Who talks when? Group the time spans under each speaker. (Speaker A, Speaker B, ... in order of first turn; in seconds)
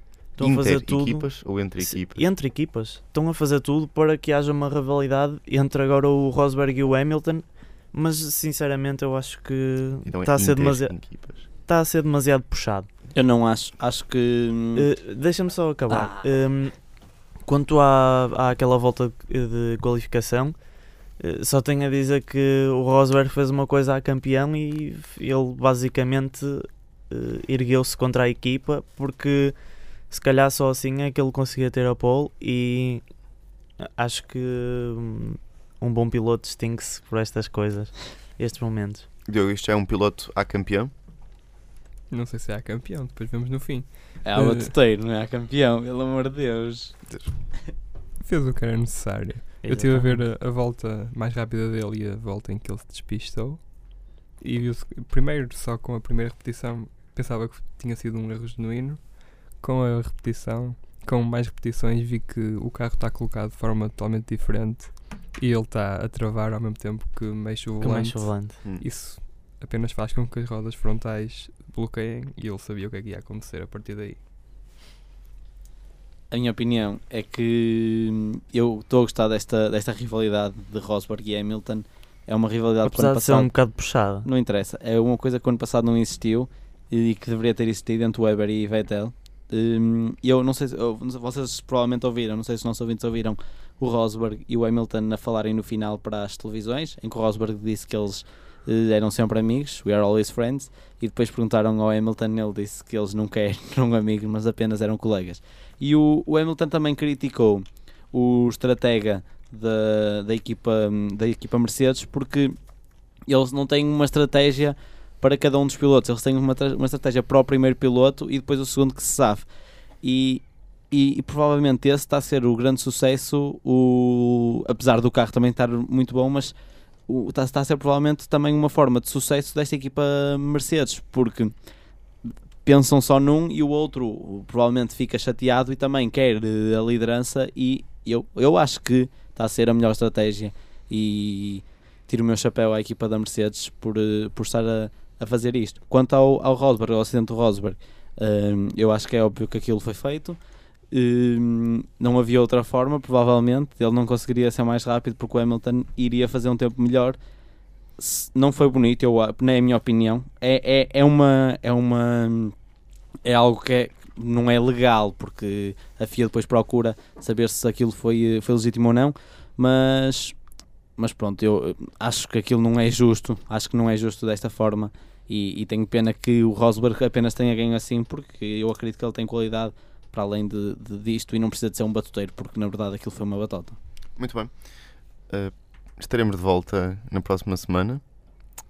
Speaker A: 0.3-12.9, 14.8-20.6, 21.2-29.6, 30.1-33.1, 33.8-39.1, 49.6-50.3, 67.8-68.6, 82.8-84.3
Speaker B: 0.4-2.3, 10.1-11.5, 39.2-40.9, 184.2-188.5
Speaker C: 13.2-14.9, 15.9-16.3, 44.2-47.1, 76.3-83.6, 84.2-112.6, 113.3-119.5, 120.0-126.5, 127.1-131.5, 132.2-150.4, 150.9-157.2, 158.0-162.6, 163.2-170.4, 171.0-183.8
Speaker D: 42.1-44.7, 48.2-74.2